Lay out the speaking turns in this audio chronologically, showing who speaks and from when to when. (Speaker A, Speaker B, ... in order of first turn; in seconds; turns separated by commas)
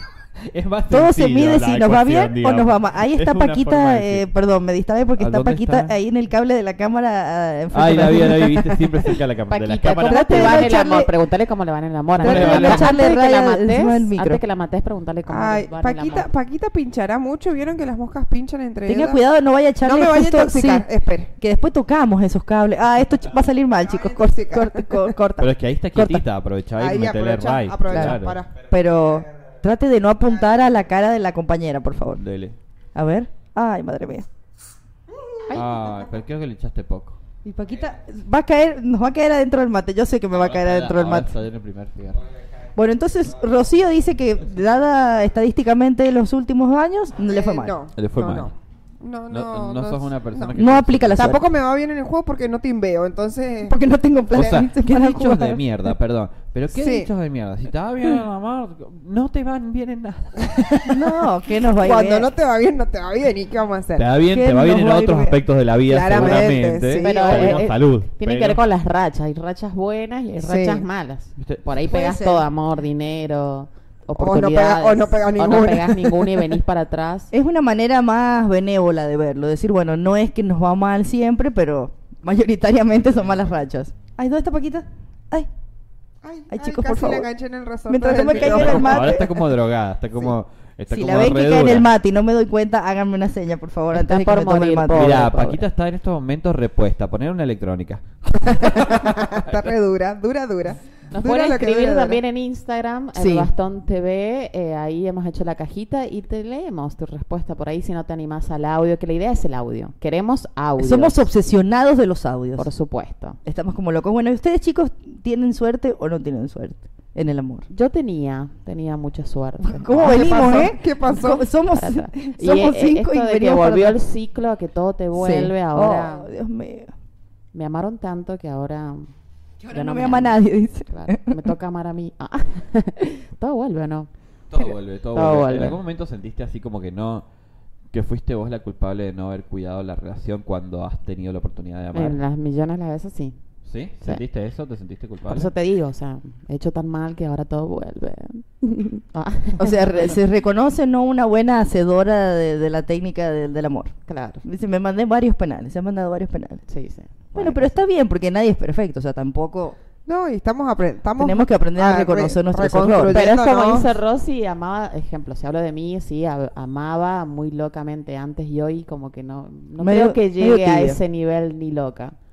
Speaker A: 0.5-4.3, Speaker B: 0.9-9.2, Speaker A: 5.2-5.9, Speaker A: 7.7-10.7, Speaker C: 9.5-16.3, Speaker B: 10.0-11.1, Speaker B: 12.2-14.4, Speaker A: 12.2-13.0, Speaker D: 15.3-19.2, Speaker B: 18.8-20.9, Speaker D: 19.8-21.3, Speaker B: 21.4-26.2, Speaker D: 23.8-25.1, Speaker A: 25.4-28.4, Speaker D: 26.8-28.5, Speaker B: 27.9-32.2, Speaker A: 32.2-32.6, Speaker B: 32.9-34.3, Speaker D: 35.1-35.6, Speaker A: 35.5-37.2, Speaker B: 37.4-41.3, Speaker A: 40.3-42.2, Speaker B: 42.8-47.8, Speaker D: 47.3-50.5, Speaker A: 48.0-48.5, Speaker A: 49.3-51.4, Speaker B: 50.5-51.4, Speaker D: 51.2-53.8, Speaker B: 53.6-55.6, Speaker A: 54.3-61.0, Speaker D: 56.7-57.1, Speaker B: 60.9-62.3, Speaker D: 61.8-64.1, Speaker A: 64.0-68.6, Speaker B: 64.2-65.4, Speaker D: 65.9-67.6, Speaker C: 67.0-77.3, Speaker D: 70.4-70.8, Speaker A: 71.4-71.6, Speaker B: 71.8-72.5, Speaker D: 74.2-76.5, Speaker B: 77.3-85.5, Speaker D: 86.2-89.3, Speaker B: 86.5-87.3, Speaker B: 87.9-89.3, Speaker A: 88.3-91.9, Speaker B: 90.9-95.2, Speaker C: 93.9-95.6, Speaker A: 94.9-99.5, Speaker D: 98.5-102.2, Speaker C: 101.1-111.2, Speaker B: 103.1-103.5, Speaker B: 110.8-112.7, Speaker C: 112.6-113.4, Speaker B: 113.4-117.7, Speaker C: 117.7-120.5, Speaker B: 119.6-124.0, Speaker D: 120.0-121.4, Speaker C: 121.7-126.3, Speaker B: 125.1-126.9, Speaker C: 127.5-129.1, Speaker B: 129.6-131.5, Speaker C: 129.7-134.1, Speaker A: 134.5-137.2, Speaker C: 135.1-135.8, Speaker A: 137.9-142.2, Speaker C: 141.9-143.4, Speaker A: 143.6-145.5, Speaker C: 145.3-150.2, Speaker B: 149.6-156.6, Speaker C: 154.1-154.4, Speaker C: 156.7-157.8, Speaker B: 157.3-159.8, Speaker D: 160.1-163.9, Speaker B: 161.2-163.2, Speaker C: 163.1-172.1, Speaker B: 169.8-171.0